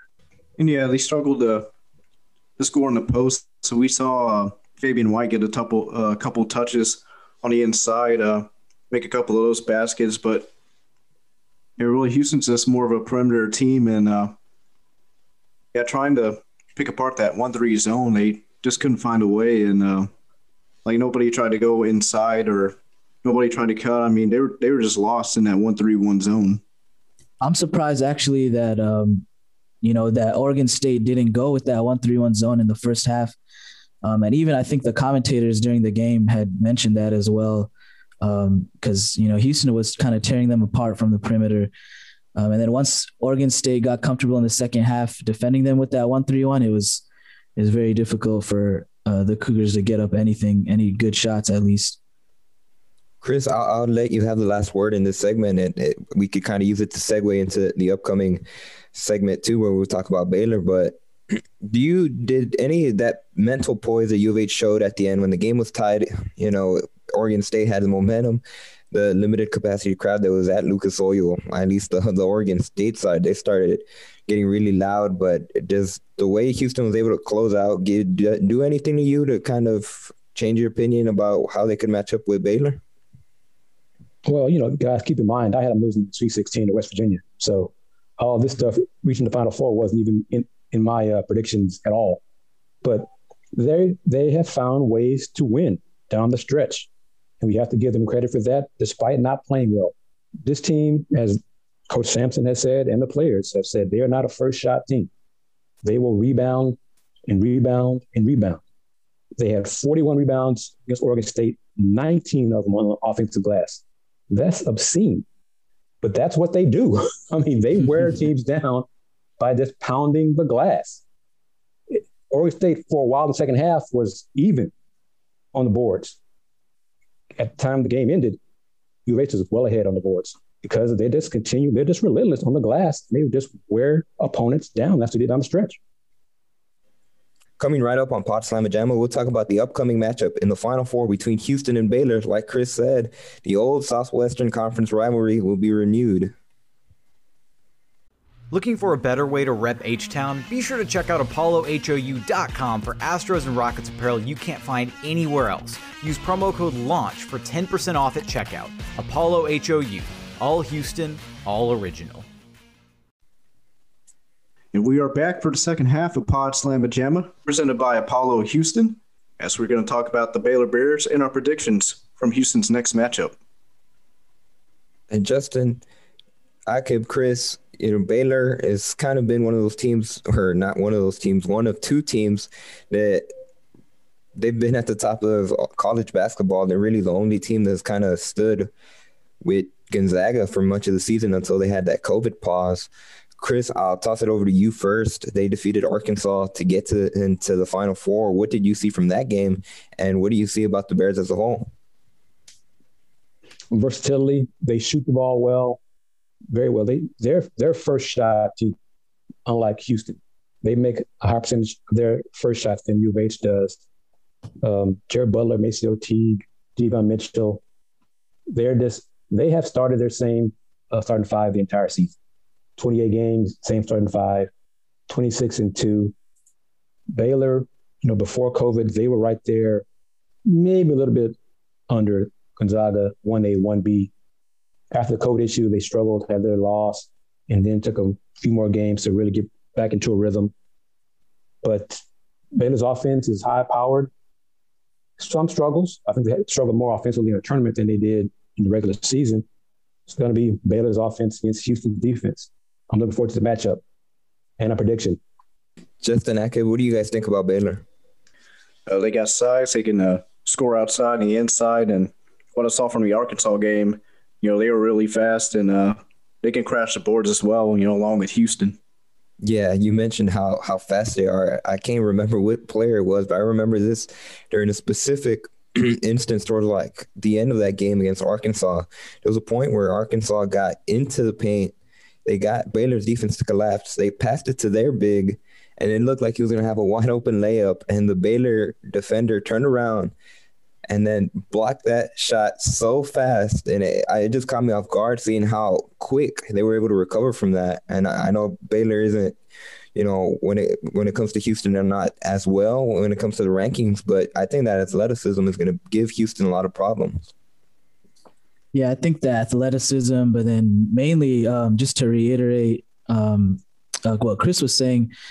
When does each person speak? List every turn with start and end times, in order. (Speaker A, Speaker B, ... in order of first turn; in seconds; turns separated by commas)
Speaker A: 0.6-1.7, Speaker A: 2.6-10.5, Speaker A: 11.8-14.3, Speaker A: 15.7-20.1, Speaker A: 20.9-26.6, Speaker B: 27.4-29.2, Speaker B: 29.8-33.4, Speaker B: 34.0-37.7, Speaker B: 38.2-41.7, Speaker B: 42.4-47.0, Speaker B: 47.6-52.0, Speaker C: 53.2-58.4, Speaker C: 58.9-61.0, Speaker C: 61.6-82.8, Speaker D: 84.2-92.2, Speaker D: 92.8-96.9, Speaker D: 97.4-105.1, Speaker D: 105.8-108.6, Speaker D: 109.4-115.2, Speaker D: 116.0-118.9, Speaker D: 119.4-121.0, Speaker D: 121.9-124.7, Speaker D: 125.5-126.2, Speaker D: 127.3-128.4, Speaker D: 129.1-135.8, Speaker C: 137.6-146.3, Speaker E: 148.5-162.3, Speaker A: 164.7-173.3, Speaker C: 175.1-175.8, Speaker C: 176.7-183.3, Speaker C: 184.4-188.7, Speaker C: 189.4-201.7, Speaker D: 203.7-205.8, Speaker D: 206.5-208.8, Speaker D: 209.5-213.8, Speaker D: 214.6-217.6, Speaker D: 218.5-222.1, Speaker D: 222.8-224.5, Speaker D: 225.1-226.1, Speaker D: 227.1-229.8, Speaker D: 230.5-231.3, Speaker D: 231.9-234.1, Speaker D: 234.9-240.5, Speaker D: 241.6-242.0, Speaker D: 242.6-244.1, Speaker D: 245.2-249.4, Speaker D: 250.1-253.8, Speaker D: 254.6-255.2, Speaker C: 256.0-257.9, Speaker A: 258.9-268.8, Speaker C: 269.4-281.7, Speaker C: 282.3-290.1, Speaker C: 290.9-299.4, Speaker C: 299.9-307.3, Speaker B: 308.7-315.1